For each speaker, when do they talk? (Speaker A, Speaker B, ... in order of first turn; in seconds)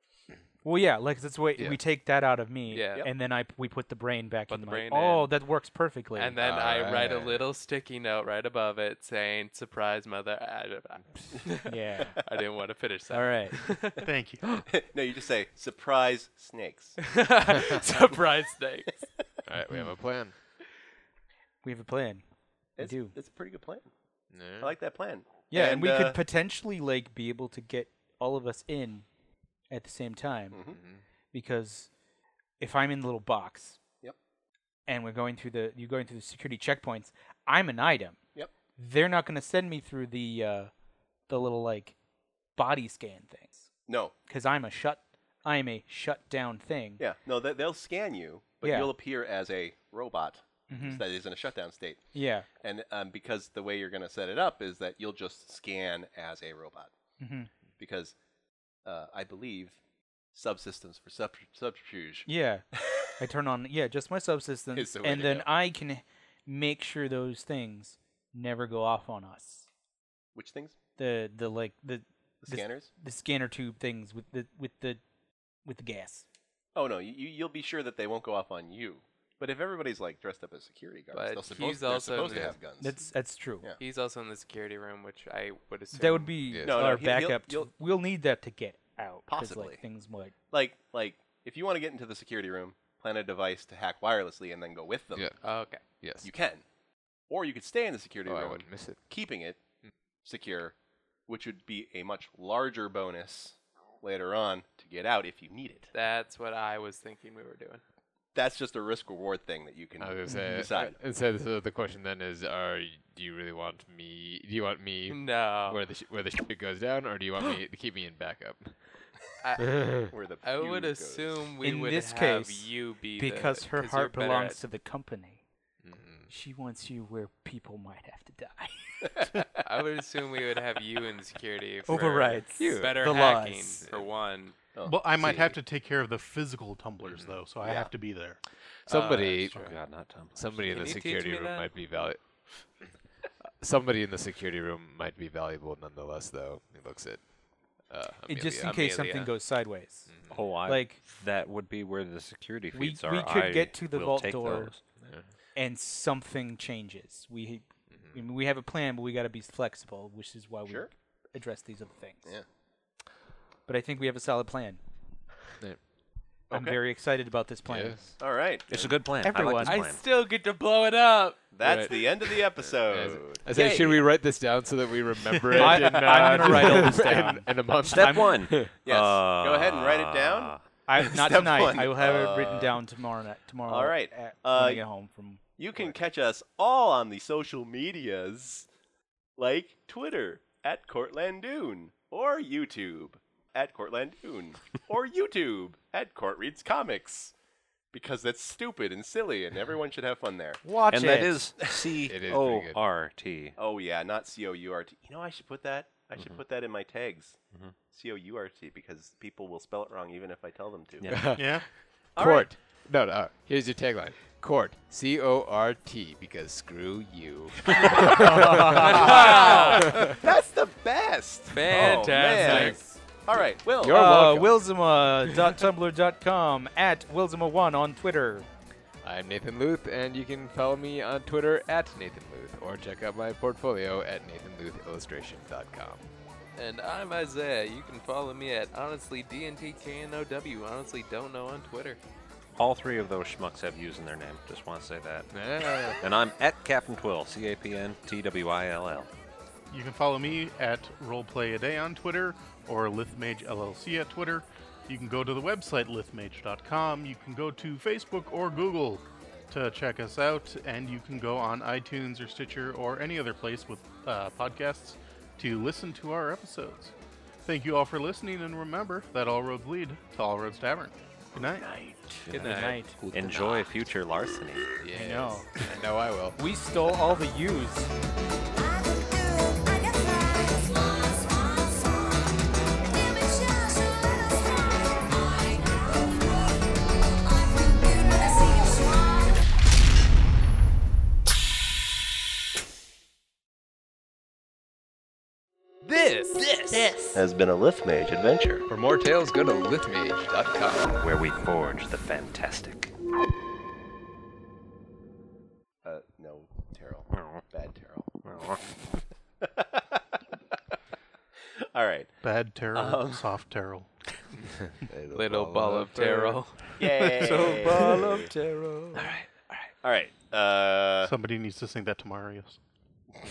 Speaker A: 0.6-6.4, 11.7-12.3, 13.1-13.7, 21.6-22.2, 22.8-23.1, 25.5-29.1, 29.7-30.6, 31.3-31.9, 32.6-33.8, 34.9-38.2, 38.8-40.7, 41.3-42.0, 42.5-43.7, 44.2-47.0, 48.6-48.9, 50.7-51.0, 52.1-52.5, 57.2-57.5, 62.2-69.7, 71.0-75.0, 75.6-76.2, 82.8-83.7, 85.9-90.3, 110.3-110.6, 121.6-125.4, 126.3-129.2, 131.8-133.8, 148.3-151.0, 152.7-154.7, 155.5-162.3, 163.7-164.8, 166.5-168.0, 169.2-169.8, 175.6-178.5, 180.8-185.4, 200.6-201.4, 218.2-219.5, 222.5-222.9, 223.8-228.5, 272.4-273.0, 274.9-275.5, 276.3-277.9, 317.2-319.1
Speaker B: 2.7-3.1, 4.5-5.3, 6.1-11.7, 12.2-14.0, 17.0-19.1, 81.1-82.5, 83.8-86.4, 95.4-95.8, 105.9-107.8, 115.1-115.8, 119.4-124.6, 129.6-134.6, 138.9-139.7, 140.6-141.7, 148.6-149.0, 169.6-172.0, 218.8-220.1, 221.5-222.9, 236.6-242.0, 272.3-272.8, 295.9-296.8, 315.1-318.0
Speaker C: 6.4-7.5, 19.4-20.3, 24.3-24.7, 30.7-31.0, 82.3-82.5, 86.5-87.0, 95.1-96.3, 98.2-99.0, 110.0-119.1, 119.8-120.1, 125.8-126.3, 137.0-137.4, 138.8-149.3, 150.1-150.4, 155.0-155.3, 157.9-158.2, 167.7-168.1, 171.6-172.1, 172.6-178.7, 202.1-202.8, 211.1-220.2, 221.8-223.0, 223.7-224.7, 229.0-236.1, 245.3-246.0, 272.4-273.7, 274.8-276.4, 296.3-296.9, 298.7-300.9, 314.6-316.5, 317.9-318.3
Speaker D: 14.0-14.4, 134.8-138.4, 175.3-176.1, 211.3-211.7, 249.7-271.7, 312.2-313.9, 321.0-322.6
Speaker E: 14.4-17.1, 22.8-23.9, 24.6-26.2, 30.5-30.8, 43.9-44.1, 47.0-56.9, 57.8-58.1, 58.8-59.8, 60.3-62.3, 64.7-65.5, 70.3-70.8, 72.4-72.9, 76.7-83.0, 86.6-87.7, 89.3-89.8, 90.5-95.3, 96.2-96.6, 97.3-99.6, 100.2-100.8, 101.3-105.9, 108.3-111.0, 120.1-121.5, 134.7-135.0, 137.6-137.9, 160.7-160.9, 166.5-166.8, 168.2-168.9, 171.5-174.1, 178.5-182.8, 183.6-184.8, 185.6-188.7, 189.4-197.3, 197.9-200.7, 201.6-201.9, 203.6-211.3, 212.1-212.5, 218.8-224.2, 297.1-298.6, 305.8-308.2, 309.4-310.2, 311.6-312.1, 312.7-313.2, 316.8-317.9, 319.8-321.1
Speaker F: 139.5-140.7, 150.3-154.8, 168.7-170.0, 177.9-180.7, 200.9-203.6, 211.0-211.6, 242.6-245.4, 246.0-249.1, 271.4-272.4, 273.1-274.8, 300.9-302.9, 307.1-307.4, 308.2-308.6
Speaker G: 278.5-289.4